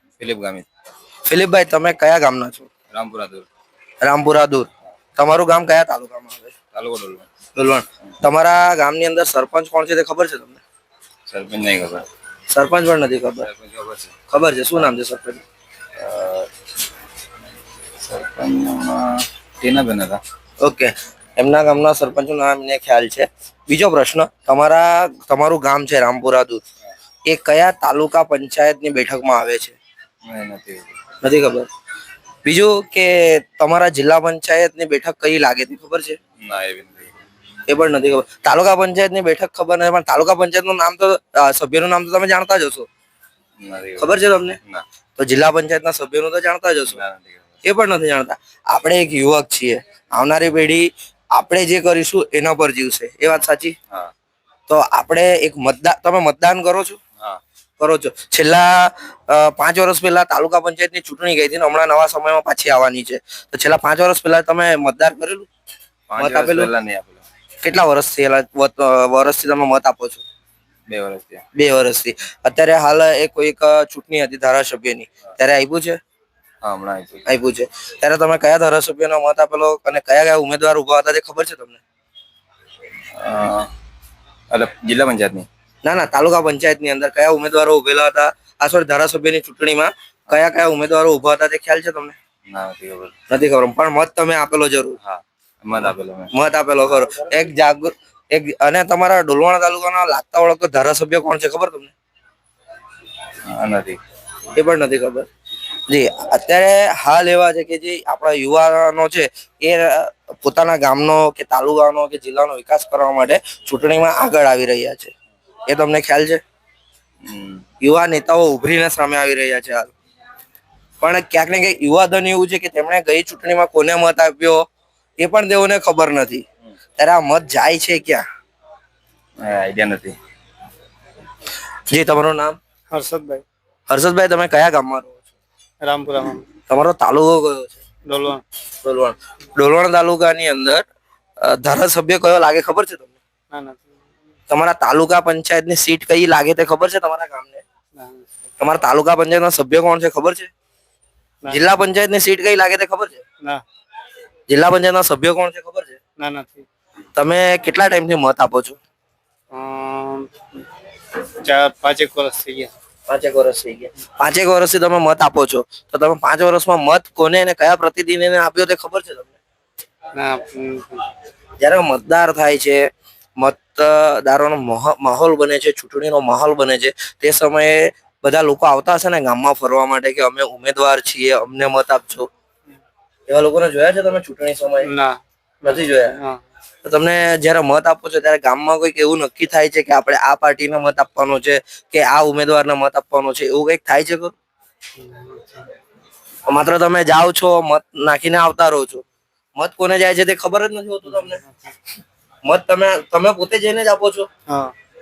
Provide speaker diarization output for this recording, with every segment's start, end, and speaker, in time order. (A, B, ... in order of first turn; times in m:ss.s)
0:00.2-0:00.7 A
0:01.3-0:02.7 B
0:02.9-0:03.5 A
0:04.0-0:06.6 B
0:06.7-0:07.3 A
0:07.6-0:10.6 B
0:11.3-0:12.0 A
0:12.5-0:13.5 B
0:13.4-0:14.2 A
0:14.3-0:15.4 B
0:16.0-0:16.5 A
0:18.0-0:20.2 A
0:20.6-0:26.6 B
0:27.3-0:29.8 B
0:30.2-0:30.9 A
0:31.2-0:31.7 B
0:32.4-0:36.2 B
0:36.4-0:37.1 A
0:37.7-0:42.9 B
0:43.6-0:44.8 A
0:44.0-0:44.6 B
0:45.2-0:47.0 B
0:46.8-0:47.5 A
0:47.6-0:53.8 B
0:54.7-0:57.0 B
0:57.8-1:05.5 B
1:06.1-1:07.2 A
1:06.2-1:06.7 B
1:07.6-1:10.2 B
1:10.9-1:11.4 A
1:11.5-1:16.0 B
1:16.6-1:17.3 A
1:17.3-1:21.8 B
1:23.2-1:23.7 A
1:24.5-1:25.5 A
1:25.8-1:32.2 B
1:32.5-1:33.1 A
1:33.3-1:35.0 B
1:35.0-1:36.3 A
1:36.3-1:41.9 B
1:43.5-1:44.0 A
1:44.5-1:45.3 B
1:45.9-1:55.1 B
1:55.7-1:56.4 B
1:57.2-1:57.6 A
1:57.8-1:59.9 B
2:01.0-2:04.6 B
2:05.2-2:06.4 B
2:07.0-2:08.2 B
2:09.4-2:10.2 A
2:11.9-2:12.6 B
2:12.9-2:13.4 C
2:13.9-2:15.2 B
2:15.8-2:16.5 C
2:16.7-2:17.8 B
2:18.1-2:18.4 C
2:18.8-2:20.8 B
2:21.4-2:23.2 B
2:23.5-2:23.8 C
2:24.5-2:27.6 B
2:28.0-2:28.3 C
2:28.6-2:30.5 B
2:31.5-2:33.2 B
2:34.5-2:36.0 B
2:36.2-2:36.7 C
2:37.2-2:38.8 B
2:39.5-2:40.3 C
2:41.4-2:42.7 C
2:43.1-2:49.4 B
2:50.2-2:51.1 C
2:51.6-2:52.8 B
2:53.4-3:02.3 B
3:03.3-3:04.9 B
3:04.8-3:05.2 C
3:05.6-3:06.1 B
3:06.1-3:06.4 C
3:06.8-3:14.3 B
3:15.0-3:15.7 C
3:16.5-3:19.0 B
3:19.6-3:21.4 B
3:21.2-3:21.7 C
3:22.4-3:24.3 B
3:24.5-3:24.7 C